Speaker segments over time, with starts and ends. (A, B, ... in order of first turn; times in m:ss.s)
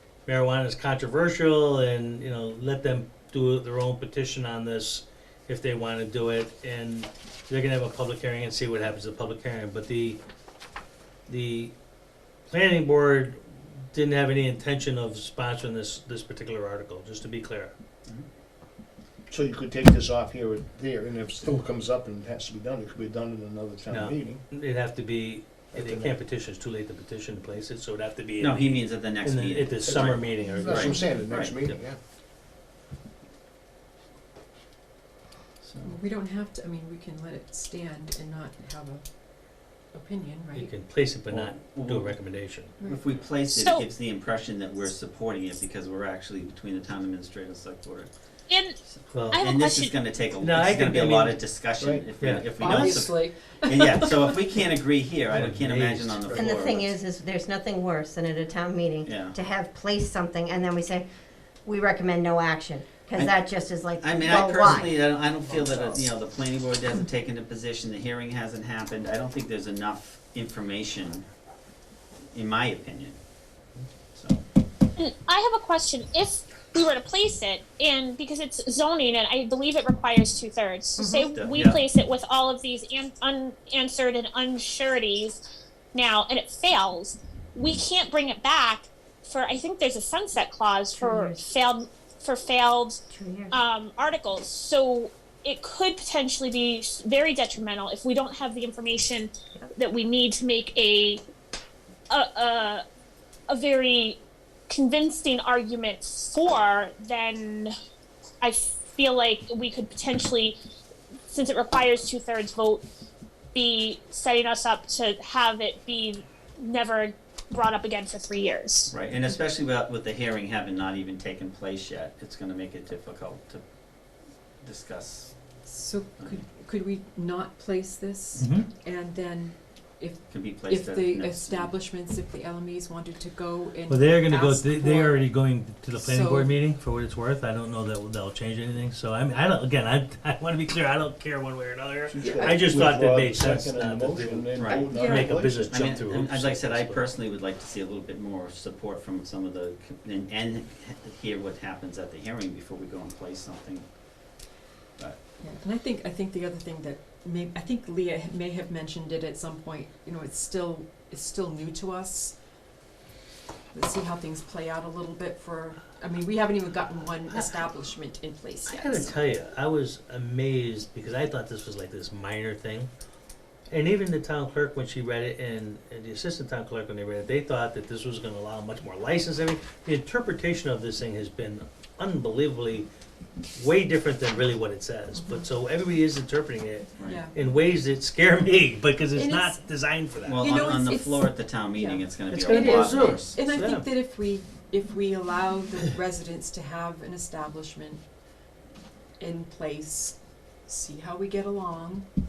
0:00.2-0:10.2 A
0:11.3-0:11.7 A
0:12.5-0:17.7 A
0:19.3-0:24.4 B
0:23.9-0:31.0 A
0:25.7-0:26.2 B
0:28.4-0:31.8 C
0:29.8-0:32.0 B
0:35.8-0:39.0 D
0:39.9-0:40.8 D
0:40.5-0:42.7 A
0:41.3-0:42.3 C
0:42.8-0:43.1 D
0:42.9-0:48.1 C
0:43.5-0:43.8 E
0:48.5-0:48.8 E
0:48.9-0:57.0 C
0:49.1-0:49.4 A
0:49.3-0:49.9 E
0:50.4-0:51.4 A
0:51.8-0:52.1 B
0:52.2-0:52.4 A
0:52.6-0:54.6 D
0:55.3-0:56.4 A
0:56.3-1:04.9 F
0:59.0-0:59.4 C
1:04.0-1:11.3 C
1:05.4-1:05.8 B
1:12.3-1:13.2 C
1:14.1-1:14.4 C
1:15.0-1:25.4 E
1:21.3-1:21.8 C
1:25.9-1:41.2 E
1:31.0-1:31.4 F
1:33.1-1:33.6 F
1:42.1-1:42.8 E
1:43.5-1:44.2 E
1:44.7-1:47.7 E
1:48.4-1:50.6 E
1:51.3-1:52.8 E
1:53.5-1:58.9 E
1:58.9-2:03.6 C
2:04.6-2:05.4 C
2:05.6-2:15.3 D
2:06.2-2:06.4 C
2:08.4-2:08.7 A
2:10.3-2:11.8 C
2:13.9-2:27.1 A
2:15.9-2:16.6 D
2:22.1-2:25.7 B
2:22.2-2:22.6 D
2:24.8-2:25.3 E
2:25.7-2:33.8 C
2:35.0-2:35.2 C
2:35.4-2:42.3 D
2:43.7-2:49.2 D
2:48.6-2:52.9 A
2:53.7-3:02.9 A
3:03.6-3:10.7 A
3:07.0-3:07.4 D
3:09.1-3:09.6 D
3:10.2-3:13.4 C
3:10.4-3:18.0 D
3:12.3-3:13.9 A
3:19.2-3:22.1 D